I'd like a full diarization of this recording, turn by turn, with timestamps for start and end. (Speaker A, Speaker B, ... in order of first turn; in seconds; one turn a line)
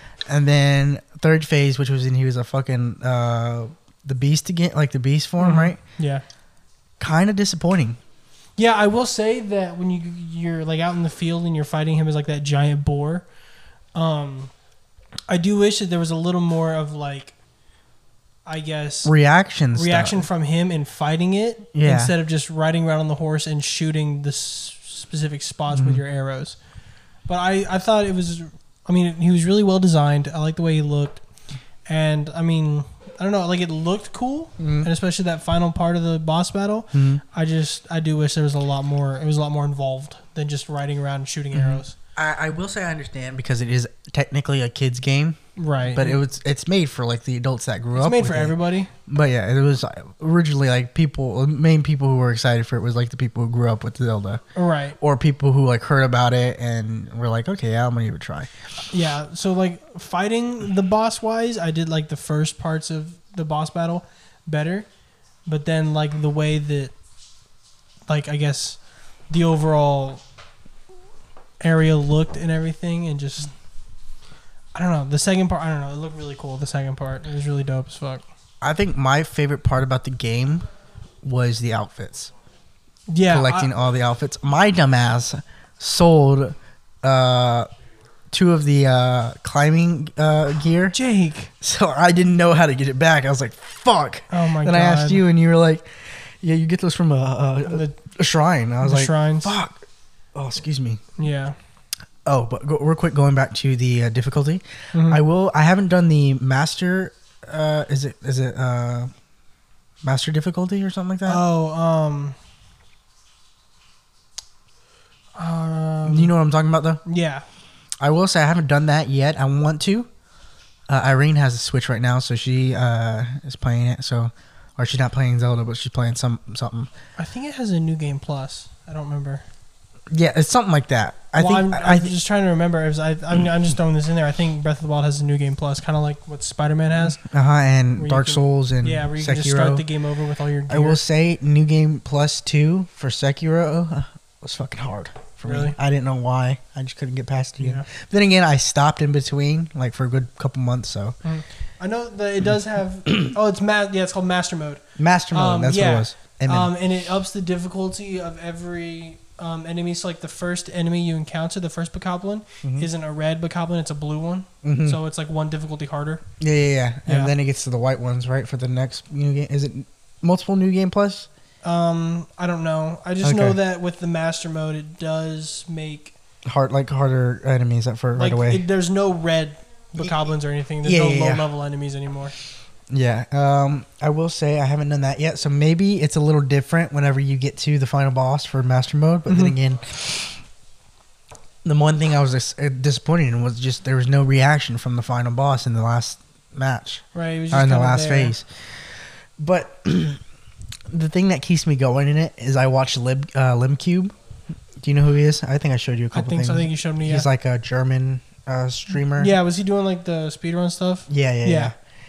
Speaker A: 0.2-5.8
Speaker B: 5.4-6.2
Speaker A: 7.0-8.0
Speaker B: 8.6-13.2
Speaker B: 13.9-14.5
Speaker B: 15.3-17.4
Speaker B: 18.4-19.1
Speaker A: 19.0-20.2
Speaker B: 19.7-26.6
Speaker A: 21.7-22.1
Speaker A: 25.7-26.0
Speaker B: 27.3-31.2
Speaker B: 31.9-41.9
Speaker A: 34.6-34.9
Speaker A: 36.9-37.2
Speaker A: 41.5-54.4
Speaker B: 45.5-46.2
Speaker B: 47.9-48.9
Speaker B: 54.5-55.0
Speaker A: 55.0-58.5
Speaker B: 58.9-64.9
Speaker B: 65.5-66.9
Speaker B: 68.1-70.2
Speaker B: 71.6-73.5
Speaker B: 74.7-78.2
Speaker A: 78.6-80.7
Speaker A: 81.2-82.3
Speaker B: 83.1-83.7
Speaker A: 83.3-87.7
Speaker A: 88.3-91.0
Speaker B: 90.9-91.5
Speaker A: 91.6-99.8
Speaker B: 94.3-95.2
Speaker B: 97.7-98.0
Speaker B: 98.8-99.5
Speaker A: 100.3-101.0
Speaker B: 101.2-101.5
Speaker A: 102.2-109.1
Speaker B: 104.9-105.2
Speaker A: 110.0-111.4
Speaker B: 111.2-112.3
Speaker B: 115.3-116.3
Speaker A: 116.0-117.0
Speaker B: 117.0-117.4
Speaker A: 118.0-120.1
Speaker A: 120.9-126.9
Speaker B: 127.2-129.4
Speaker A: 130.1-132.1
Speaker B: 131.3-137.2
Speaker A: 137.1-139.8
Speaker B: 138.0-141.0
Speaker A: 140.7-151.2
Speaker B: 145.4-145.8
Speaker B: 147.6-147.9
Speaker B: 151.2-166.2
Speaker A: 155.0-156.7
Speaker A: 162.6-162.9
Speaker A: 164.6-165.0
Speaker A: 166.4-171.3
Speaker B: 167.1-167.3
Speaker B: 171.6-176.2
Speaker A: 173.2-173.6
Speaker A: 176.4-178.6
Speaker B: 178.1-182.3
Speaker A: 180.8-181.5
Speaker A: 182.9-190.4
Speaker B: 189.3-189.5
Speaker A: 191.6-200.2
Speaker B: 197.1-198.3
Speaker A: 200.9-204.1
Speaker A: 204.8-209.3
Speaker B: 206.1-207.3
Speaker B: 209.2-211.7
Speaker A: 211.1-211.7